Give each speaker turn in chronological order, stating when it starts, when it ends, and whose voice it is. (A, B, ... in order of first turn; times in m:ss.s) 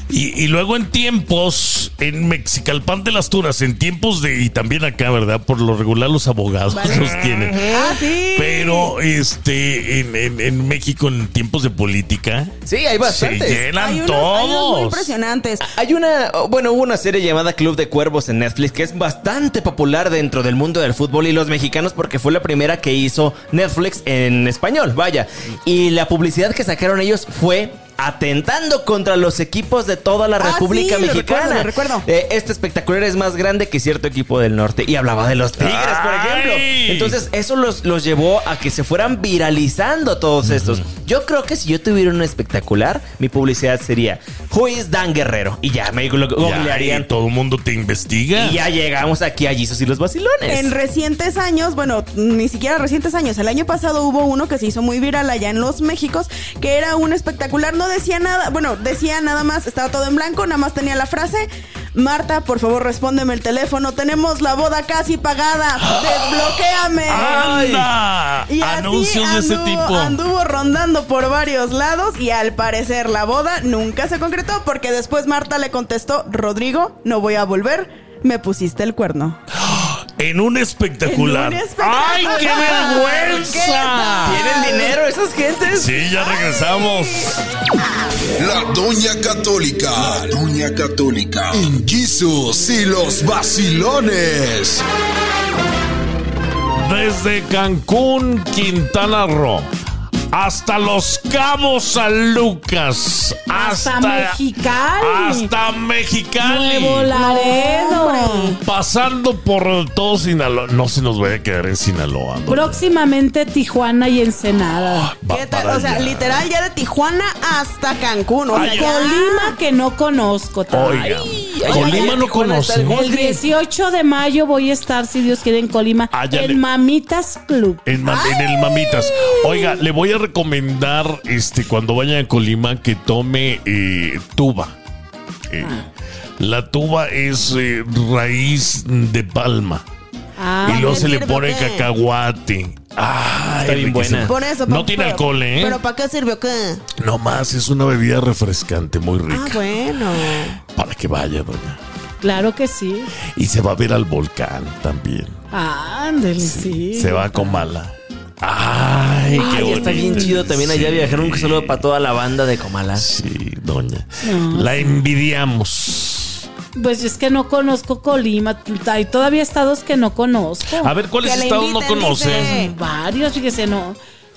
0:00.1-0:07.8 A
0:06.7-0:08.9 B
0:06.8-0:07.9 C
0:08.3-0:15.1 A
0:12.6-0:13.6 C
0:13.7-0:15.7 B
0:15.6-0:47.1 C
0:30.4-0:32.1 B
0:35.6-0:37.2 A
0:46.4-0:48.6 A
0:48.4-0:50.7 C
0:50.5-1:07.9 B
1:05.9-1:06.3 A
1:07.0-1:10.2 A
1:08.5-1:19.4 B
1:19.7-1:24.4 A
1:21.0-1:25.0 B
1:24.2-1:26.0 C
1:25.7-1:27.4 A
1:26.2-1:27.4 B
1:28.4-1:34.8 D
1:36.8-1:39.7 A
1:40.3-1:44.4 A
1:43.5-1:45.5 E
1:45.0-1:47.1 A
1:46.4-1:48.6 E
1:47.1-1:48.6 B
1:48.6-1:52.8 A
1:52.5-1:55.1 E
1:55.1-1:56.4 A
1:55.3-1:59.6 B
1:58.5-1:59.0 A
1:58.5-2:01.2 E
2:00.7-2:03.0 A
2:01.0-2:03.4 C
2:01.7-2:02.1 B
2:02.9-2:07.8 E
2:06.1-2:06.6 A
2:07.8-2:14.8 A
2:08.0-2:09.8 B
2:15.5-2:15.8 A
2:16.4-2:19.8 A
2:20.4-2:21.1 E
2:20.6-2:21.9 B
2:20.6-2:25.8 A
2:23.6-2:24.4 C
2:24.2-2:26.8 B
2:27.0-2:29.6 A
2:29.3-2:30.6 B
2:30.7-2:31.8 A
2:32.2-2:33.1 E
2:33.4-2:35.4 A
2:35.5-2:37.7 E
2:36.4-2:41.8 A
2:39.3-2:40.3 E
2:39.3-2:43.1 C
2:43.0-2:46.4 A
2:44.2-2:45.0 E
2:46.8-2:50.9 E
2:50.8-2:52.6 A
2:51.2-2:52.7 B
2:52.2-2:54.0 E